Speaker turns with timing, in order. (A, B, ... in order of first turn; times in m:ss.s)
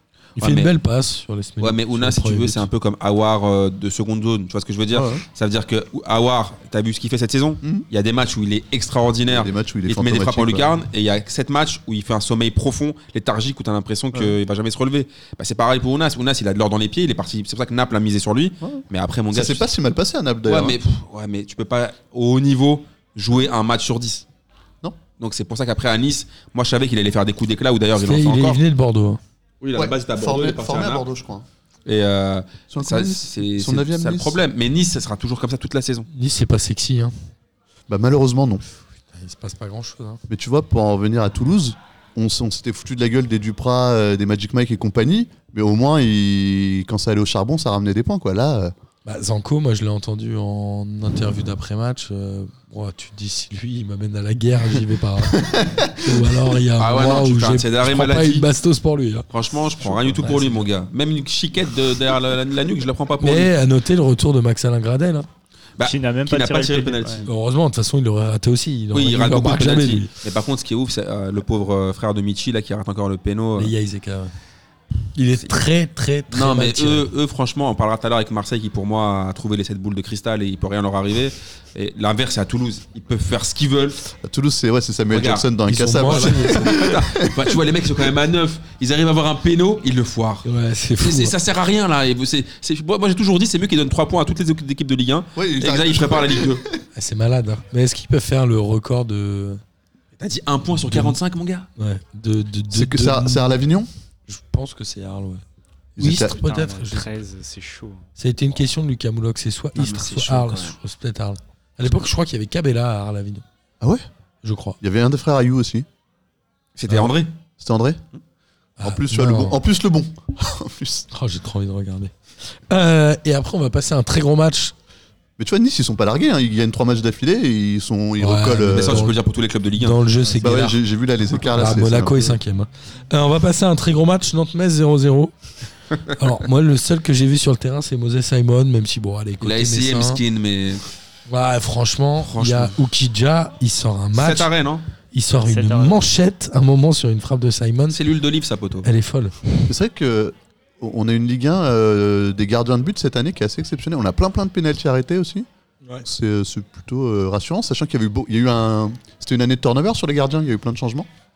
0:00.4-0:00.7 A
0:00.4-0:02.7 B
0:01.6-0:19.6 A
0:04.9-0:05.2 C
0:09.3-0:10.8 C
0:18.6-0:20.8 C
0:20.5-0:24.2 A
0:25.2-0:28.6 A
0:27.9-0:29.2 B
0:29.6-0:31.0 A
0:29.7-0:31.4 C
0:31.8-0:36.1 A
0:32.7-0:34.4 C
0:36.1-0:37.1 B
0:37.9-0:38.6 C
0:39.1-0:40.2 B
0:40.3-0:48.7 C
0:49.0-0:59.3 B
0:55.3-0:56.6 C
0:56.8-0:58.5 A
0:59.3-1:03.5 A
0:59.9-1:00.3 C
0:59.9-1:00.7 B
1:03.2-1:05.3 B
1:05.8-1:07.3 A
1:05.8-1:07.3 D
1:07.2-1:10.1 B
1:08.9-1:13.7 A
1:13.6-1:14.3 B
1:15.1-1:17.1 B
1:16.3-1:24.0 A
1:24.1-1:27.6 C
1:25.1-1:25.5 A
1:25.7-1:26.7 B
1:26.0-1:30.5 A
1:30.4-1:31.4 B
1:31.0-1:36.6 A
1:35.4-1:36.8 C
1:36.9-1:39.6 B
1:40.2-1:41.7 A
1:40.9-1:41.2 B
1:41.8-1:43.6 B
1:42.7-1:43.9 C
1:44.3-1:45.4 B
1:46.0-1:47.1 B
1:46.0-1:46.4 C
1:46.2-1:48.0 D
1:48.2-1:53.4 B
1:49.7-1:50.8 A
1:54.4-1:54.8 B
1:54.8-1:55.8 C
1:56.8-1:57.3 A
1:56.9-1:57.1 B
1:57.6-1:58.0 C
1:58.8-1:59.6 B
1:58.8-2:01.1 C
2:01.1-2:04.7 B
2:05.4-2:09.1 C
2:08.2-2:09.2 B
2:08.7-2:10.0 A
2:09.8-2:10.8 B
2:10.3-2:12.4 C
2:11.4-2:15.3 B
2:16.0-2:20.2 B
2:19.4-2:20.9 A
2:21.3-2:24.5 B
2:22.2-2:22.8 A
2:24.1-2:24.8 A
2:25.1-2:28.0 B
2:25.3-2:26.0 D
2:27.9-2:28.9 A
2:28.8-2:29.7 B
2:29.6-2:35.4 C
2:36.0-2:41.1 C